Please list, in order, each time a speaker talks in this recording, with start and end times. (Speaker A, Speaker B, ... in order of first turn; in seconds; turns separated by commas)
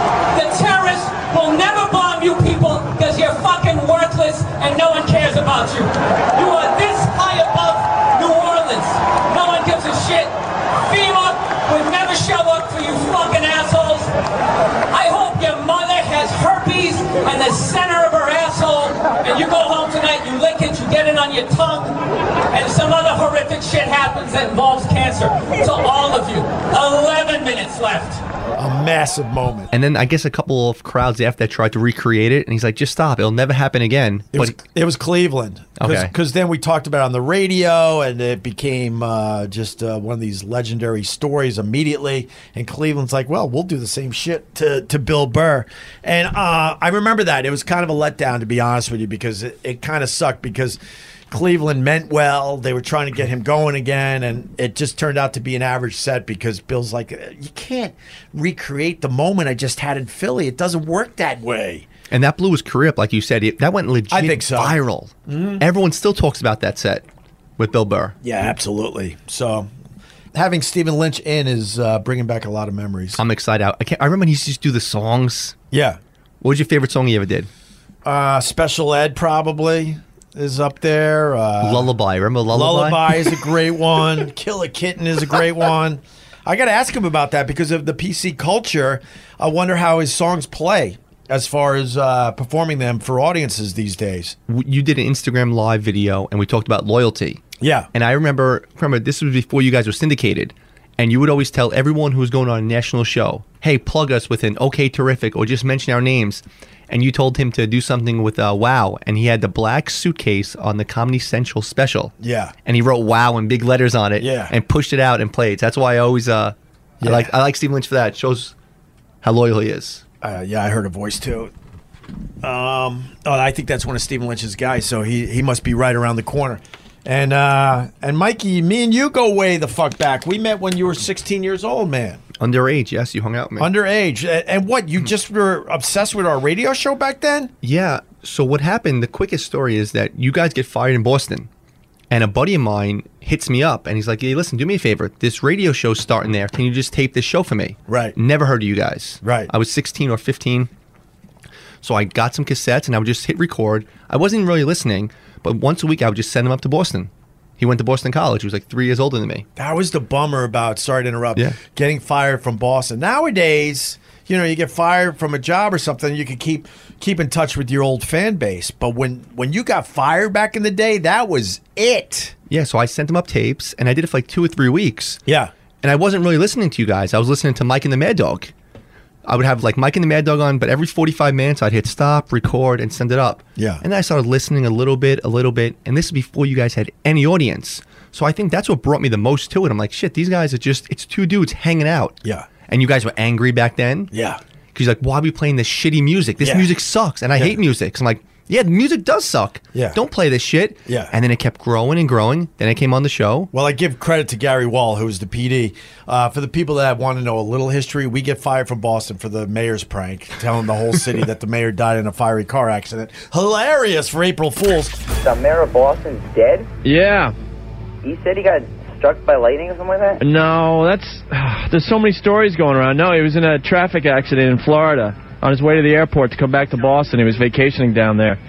Speaker A: 0.3-14.1, Speaker A: 14.9-22.0, Speaker A: 22.5-28.2, Speaker B: 28.6-29.7, Speaker C: 29.7-34.5, Speaker B: 34.3-50.8, Speaker C: 35.8-36.1, Speaker B: 51.3-61.9, Speaker C: 62.1-67.0, Speaker B: 64.1-65.6, Speaker C: 67.6-68.1, Speaker B: 68.2-69.7, Speaker B: 70.3-73.2, Speaker C: 73.2-75.5, Speaker B: 75.7-76.0, Speaker C: 76.4-77.5, Speaker B: 78.0-81.9, Speaker C: 81.6-83.4, Speaker B: 82.5-94.4, Speaker C: 94.5-112.1, Speaker B: 97.6-97.9, Speaker B: 112.2-112.5, Speaker C: 112.6-118.5, Speaker B: 114.2-114.5, Speaker B: 117.0-117.3, Speaker C: 119.2-120.0, Speaker B: 120.2-121.5, Speaker B: 122.4-132.2, Speaker C: 132.4-133.7, Speaker B: 133.6-137.5, Speaker C: 137.6-141.5, Speaker C: 142.1-150.7, Speaker B: 147.9-148.1, Speaker B: 149.2-149.5, Speaker C: 151.8-159.4, Speaker B: 159.6-172.3, Speaker C: 172.5-175.2, Speaker B: 175.2-175.5, Speaker C: 175.8-178.5, Speaker C: 179.2-192.2, Speaker B: 183.6-183.8, Speaker C: 192.7-194.1, Speaker B: 194.1-194.4, Speaker C: 194.7-203.5, Speaker B: 196.4-196.7, Speaker B: 199.7-200.0, Speaker B: 200.8-201.1, Speaker B: 203.5-215.0, Speaker D: 215.2-216.7, Speaker E: 216.8-217.3, Speaker D: 218.0-220.2, Speaker E: 220.2-228.4